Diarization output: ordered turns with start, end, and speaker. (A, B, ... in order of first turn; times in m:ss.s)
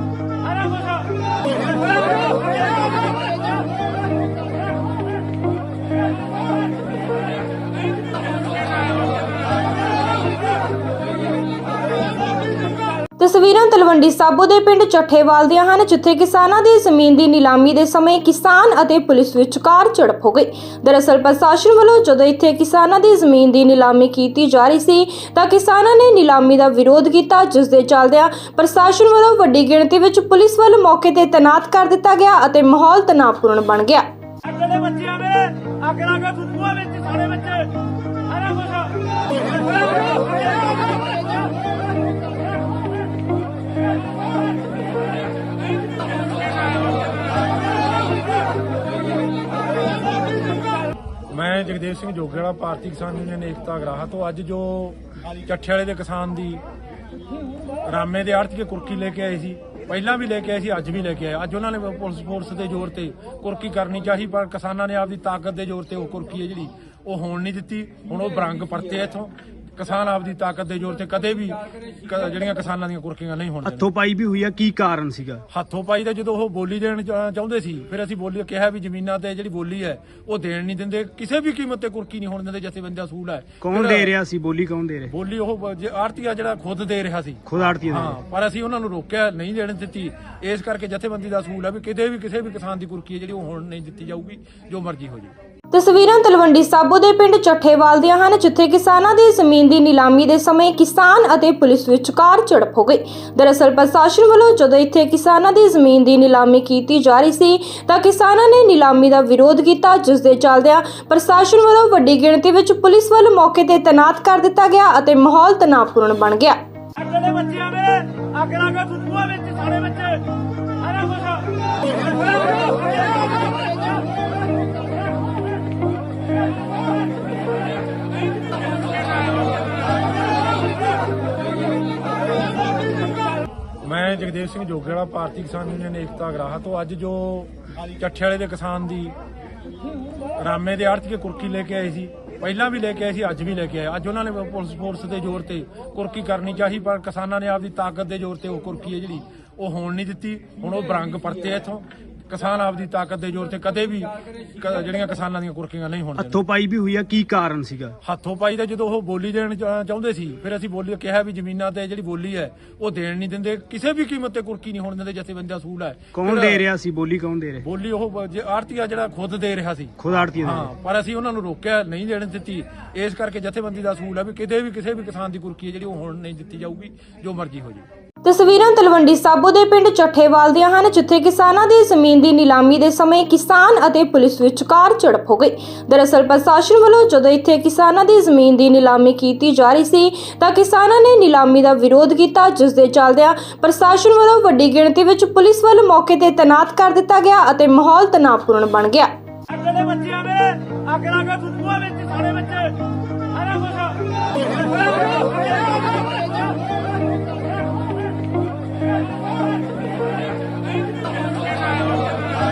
0:00.5-0:00.9 A
0:13.2-0:34.0 B
0:34.4-0:37.7 A
0:34.8-0:35.1 C
0:38.3-0:39.2 A
0:51.3-0:56.6 C
0:57.9-1:13.9 C
1:13.6-1:15.4 D
1:15.5-1:24.1 C
1:23.6-1:25.1 D
1:25.1-1:35.3 C
1:27.5-1:28.2 D
1:35.7-1:56.6 B
1:57.0-1:57.9 C
1:57.0-2:00.3 A
1:59.0-1:59.3 C
2:00.8-2:01.5 A
2:02.2-2:02.6 A
2:13.8-2:19.2 C
2:20.4-2:36.4 C
2:36.2-2:38.0 D
2:38.0-2:46.7 C
2:46.1-2:47.6 D
2:47.6-2:57.9 C
2:50.0-2:50.7 D
2:58.2-3:19.1 B
3:19.5-3:22.8 A
3:19.6-3:20.2 C
3:23.3-3:26.3 A